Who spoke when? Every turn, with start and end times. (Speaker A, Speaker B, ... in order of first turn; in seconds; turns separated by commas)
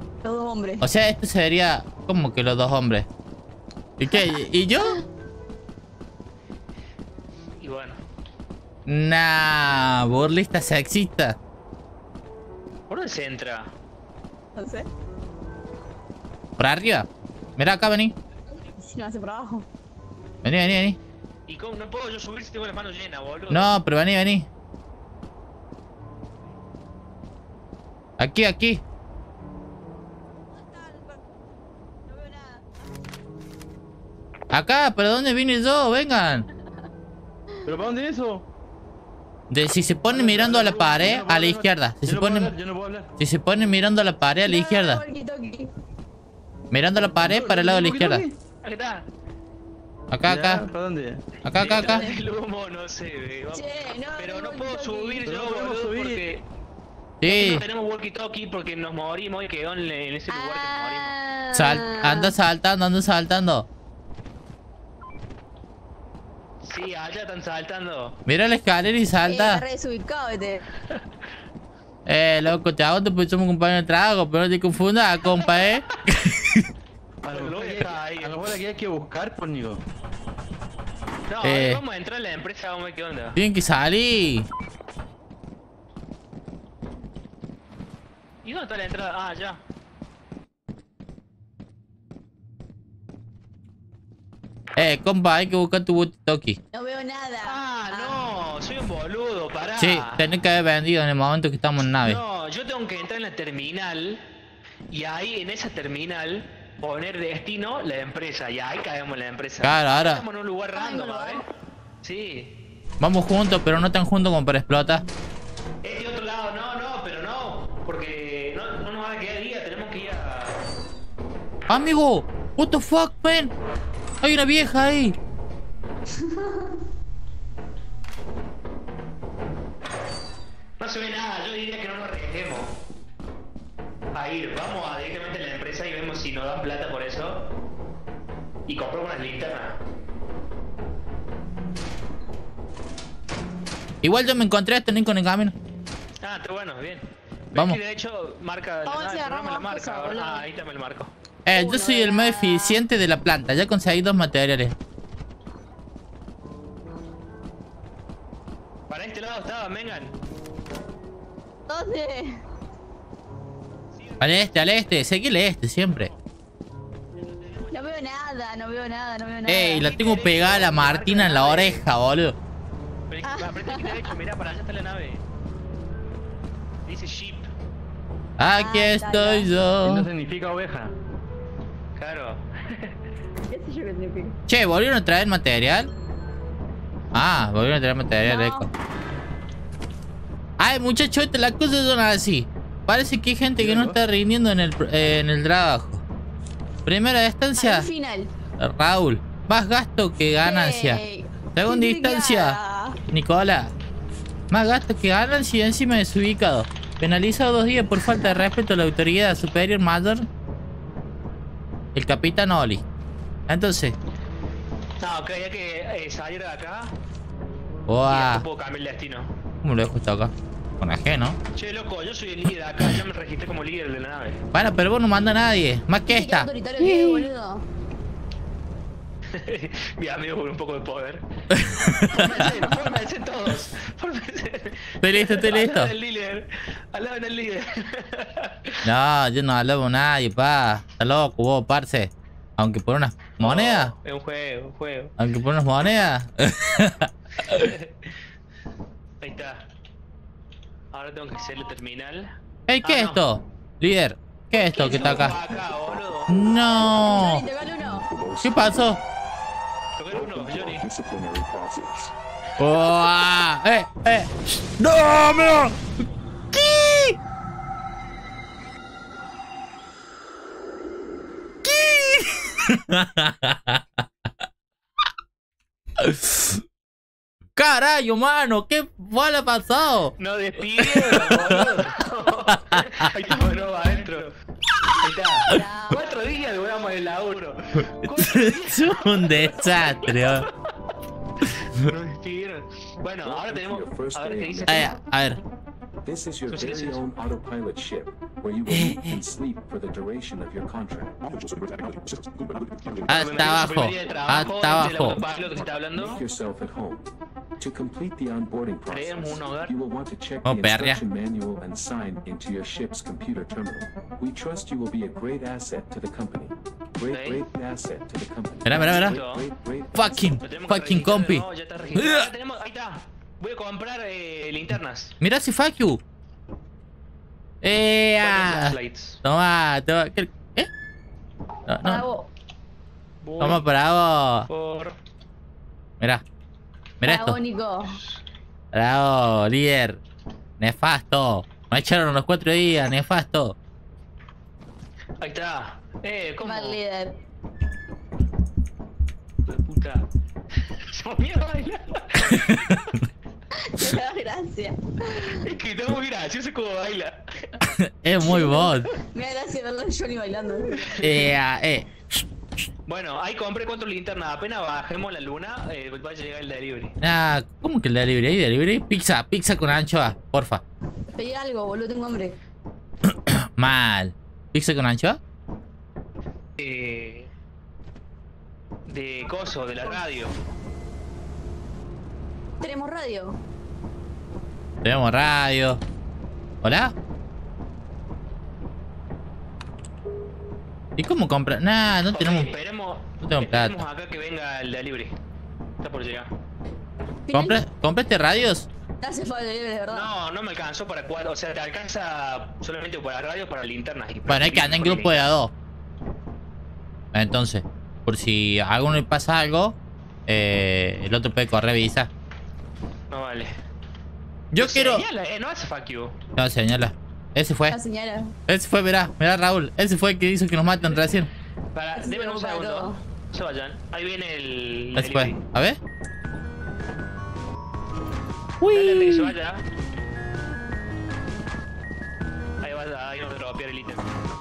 Speaker A: 0.2-0.9, Speaker B: 0.8-3.1, Speaker B: 4.0-5.0, Speaker A: 4.1-5.0, Speaker C: 7.6-8.0, Speaker B: 8.8-11.4, Speaker C: 12.9-13.7, Speaker A: 14.6-14.9, Speaker B: 16.6-18.1, Speaker A: 18.8-19.7, Speaker B: 20.4-21.0, Speaker C: 21.5-23.7, Speaker B: 23.5-24.5, Speaker B: 28.2-28.8, Speaker A: 30.6-31.2, Speaker A: 32.1-32.8, Speaker B: 34.5-36.5, Speaker D: 37.7-38.4, Speaker B: 39.5-42.5, Speaker D: 40.1-43.1, Speaker B: 43.2-45.0, Speaker A: 44.4-45.7, Speaker B: 46.7-48.2, Speaker D: 47.2-48.4, Speaker C: 48.6-49.0, Speaker B: 50.1-50.6, Speaker D: 50.3-51.3, Speaker B: 51.4-52.0, Speaker C: 51.5-56.4, Speaker A: 51.8-52.2, Speaker A: 53.5-55.2, Speaker D: 55.2-56.2, Speaker B: 57.2-57.6, Speaker C: 57.2-61.1, Speaker A: 60.3-62.3, Speaker B: 61.5-63.7, Speaker C: 66.6-68.1, Speaker B: 68.3-69.6, Speaker A: 69.3-70.6, Speaker B: 72.1-76.7, Speaker C: 75.5-75.8, Speaker D: 77.2-79.8, Speaker C: 77.3-78.4, Speaker C: 81.3-83.4, Speaker B: 81.4-81.8, Speaker B: 83.3-84.5, Speaker C: 88.4-89.6, Speaker B: 94.8-96.6, Speaker A: 96.7-98.2, Speaker C: 97.4-100.2, Speaker B: 99.8-102.2, Speaker C: 101.9-104.2, Speaker C: 104.9-111.4, Speaker B: 109.6-110.2, Speaker A: 110.7-111.4, Speaker C: 112.0-112.5, Speaker B: 113.0-115.0, Speaker C: 115.8-120.6, Speaker B: 121.7-123.5, Speaker B: 124.2-125.2, Speaker A: 126.2-126.7, Speaker C: 130.8-132.7, Speaker C: 134.1-137.4, Speaker C: 138.7-139.8, Speaker B: 144.0-145.5, Speaker C: 146.2-151.1, Speaker A: 148.8-150.4, Speaker B: 151.4-154.7, Speaker A: 151.5-152.8, Speaker C: 158.9-160.1, Speaker A: 161.7-162.4, Speaker C: 163.9-164.7, Speaker B: 164.2-166.1, Speaker A: 167.7-169.8, Speaker B: 169.5-172.3, Speaker C: 169.8-171.8, Speaker C: 173.1-175.2, Speaker A: 173.2-174.1, Speaker C: 176.8-177.5, Speaker B: 178.4-180.1, Speaker A: 178.5-179.5, Speaker D: 179.8-180.9, Speaker C: 181.9-182.9, Speaker A: 183.5-184.4, Speaker B: 184.5-185.9, Speaker B: 187.1-188.7, Speaker A: 188.2-188.7, Speaker B: 190.6-196.0, Speaker D: 193.6-194.0, Speaker B: 196.8-197.9, Speaker A: 197.6-198.3, Speaker B: 198.6-201.0, Speaker A: 200.4-203.0, Speaker B: 201.5-202.6, Speaker B: 203.1-203.7, Speaker B: 204.5-210.3, Speaker B: 211.9-212.8, Speaker B: 213.5-213.9, Speaker C: 215.0-216.9, Speaker B: 217.9-218.4, Speaker C: 218.1-219.3, Speaker B: 219.6-221.4, Speaker C: 221.5-224.4, Speaker B: 224.5-227.3, Speaker A: 226.1-227.6, Speaker C: 229.3-231.2, Speaker B: 231.5-232.7, Speaker C: 231.8-238.9, Speaker B: 235.0-235.9, Speaker B: 238.8-243.9, Speaker C: 243.4-245.1, Speaker B: 245.2-247.7, Speaker C: 247.4-248.1, Speaker C: 249.2-249.6, Speaker C: 250.9-252.3, Speaker B: 252.7-255.4, Speaker C: 252.8-253.2, Speaker C: 254.5-256.3, Speaker E: 254.8-258.9, Speaker B: 256.3-257.4, Speaker A: 257.0-258.1, Speaker B: 258.4-259.0, Speaker C: 260.0-260.8, Speaker E: 260.1-262.1, Speaker B: 262.6-265.8, Speaker B: 266.5-267.2, Speaker B: 271.6-274.0, Speaker B: 276.0-276.6, Speaker B: 277.6-280.1, Speaker C: 280.2-284.3, Speaker B: 280.7-281.8, Speaker B: 282.5-283.1, Speaker C: 285.0-290.5, Speaker A: 285.5-286.0, Speaker B: 288.0-290.5, Speaker C: 291.5-294.9, Speaker E: 293.2-294.9, Speaker B: 294.7-295.4, Speaker E: 296.0-307.0, Speaker C: 296.5-297.0, Speaker B: 298.7-299.2, Speaker C: 303.1-306.2, Speaker B: 303.1-305.2, Speaker E: 307.6-320.3, Speaker C: 308.9-309.7, Speaker B: 310.4-311.0, Speaker C: 317.1-317.4, Speaker B: 318.6-319.2, Speaker C: 318.8-319.5, Speaker B: 319.9-322.3, Speaker C: 320.4-325.1, Speaker B: 325.2-326.0, Speaker B: 327.6-330.7, Speaker C: 328.2-329.2, Speaker B: 331.7-332.1, Speaker A: 331.8-332.3, Speaker C: 333.2-333.6, Speaker B: 333.4-334.5, Speaker C: 334.5-334.9, Speaker B: 337.0-337.4, Speaker A: 337.0-338.0, Speaker B: 338.7-340.0, Speaker B: 340.6-343.6, Speaker C: 345.2-346.8, Speaker A: 346.4-347.2, Speaker C: 349.4-350.0, Speaker C: 350.6-352.9, Speaker B: 352.3-352.8, Speaker A: 353.5-355.4, Speaker C: 355.3-357.6, Speaker B: 357.6-358.9, Speaker A: 358.2-361.1, Speaker B: 361.0-361.9, Speaker C: 362.9-366.9, Speaker B: 367.0-370.6, Speaker A: 371.1-372.4, Speaker B: 373.1-375.2, Speaker C: 376.6-377.3, Speaker C: 378.9-380.3, Speaker A: 379.4-380.0, Speaker A: 382.6-383.4, Speaker B: 384.8-385.8, Speaker B: 386.6-386.9, Speaker B: 391.0-392.5, Speaker C: 392.1-395.1, Speaker B: 393.2-393.8, Speaker C: 395.8-396.3, Speaker A: 397.3-397.6, Speaker B: 397.3-398.7, Speaker A: 399.0-400.1, Speaker C: 399.9-405.3, Speaker B: 404.3-405.5, Speaker B: 407.1-409.8, Speaker B: 410.3-412.1, Speaker C: 413.1-413.5, Speaker B: 414.5-415.1, Speaker C: 414.6-416.1, Speaker B: 416.4-417.8, Speaker A: 417.7-418.4, Speaker B: 418.5-421.3, Speaker C: 421.7-425.4, Speaker A: 422.0-423.0, Speaker B: 424.9-425.8, Speaker B: 428.6-429.4, Speaker C: 428.7-429.6, Speaker C: 432.6-434.0